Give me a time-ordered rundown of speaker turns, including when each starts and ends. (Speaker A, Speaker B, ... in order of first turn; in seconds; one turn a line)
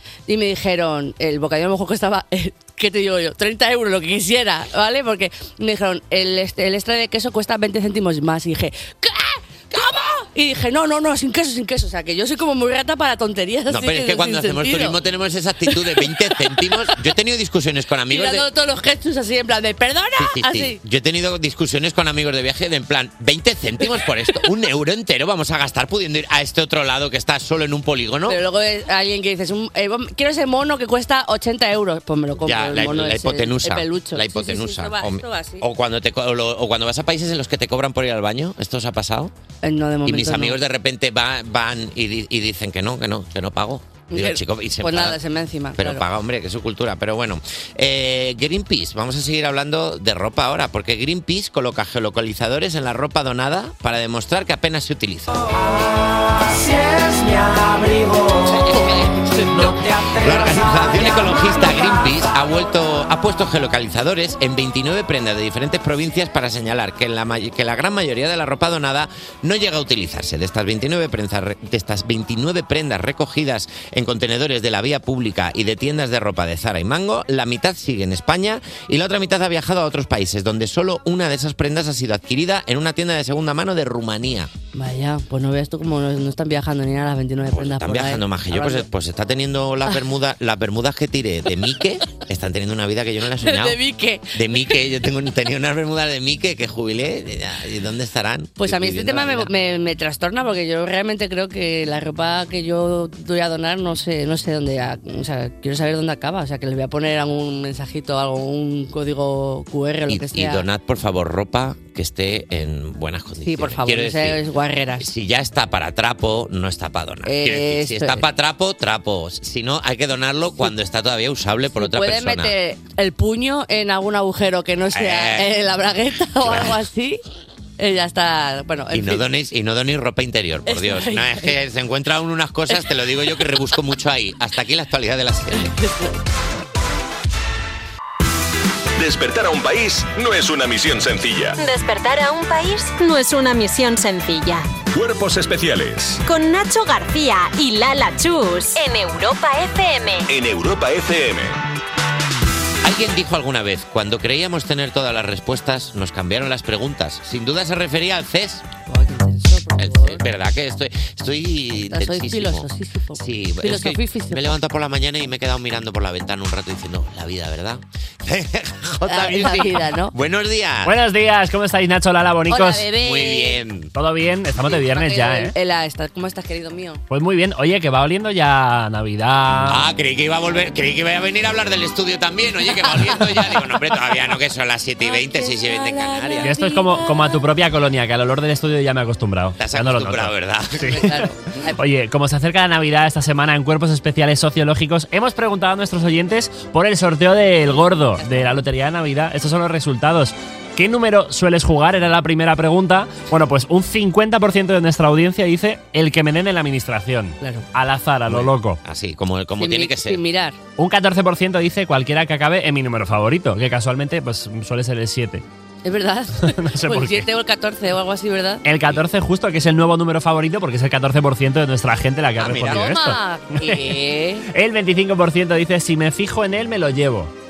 Speaker A: 0.3-15.0
Speaker B: 13.7-18.5
Speaker A: 15.7-16.8
Speaker A: 18.1-20.8
Speaker B: 20.2-28.4
Speaker A: 28.3-35.6
Speaker B: 32.4-39.3
Speaker A: 39.6-40.6
Speaker B: 40.0-45.2
Speaker A: 44.1-46.0
Speaker B: 45.8-55.5
Speaker B: 58.5-84.5
Speaker A: 84.7-88.9
Speaker B: 87.5-93.8
Speaker A: 93.4-94.7
Speaker B: 94.3-99.5
Speaker A: 98.6-110.7
Speaker B: 110.1-114.4
Speaker A: 113.4-115.1
Speaker B: 115.0-122.5
Speaker A: 117.3-118.2
Speaker A: 121.8-127.2
Speaker B: 124.9-125.5
Speaker B: 126.4-126.8
Speaker A: 127.8-129.3
Speaker B: 128.9-135.7
Speaker A: 130.7-131.6
Speaker A: 135.5-136.2
Speaker C: 139.0-141.6
Speaker D: 141.6-144.7
Speaker C: 144.9-146.2
Speaker D: 146.2-150.3
Speaker C: 150.3-151.6
Speaker B: 152.8-158.6
Speaker A: 158.9-160.2
Speaker B: 159.8-162.7
Speaker A: 161.9-164.6
Speaker B: 163.2-170.9
Speaker A: 169.1-170.1
Speaker E: 170.8-172.9
Speaker A: 172.5-173.6
Speaker B: 172.9-173.9
Speaker E: 173.9-175.5
Speaker A: 174.7-177.0
Speaker E: 177.1-179.9
Speaker B: 179.7-186.5
Speaker A: 182.8-183.6
Speaker A: 185.0-187.4
Speaker E: 186.4-191.2
Speaker B: 189.6-191.0
Speaker A: 190.9-191.8
Speaker E: 191.8-208.8
Speaker A: 207.4-207.7
Speaker B: 208.3-210.2
Speaker A: 209.6-210.6
Speaker E: 210.8-215.4
Speaker A: 215.8-218.6
Speaker E: 216.4-217.3
Speaker E: 218.7-224.0
Speaker B: 222.4-222.9
Speaker A: 222.7-224.5
Speaker E: 224.5-227.3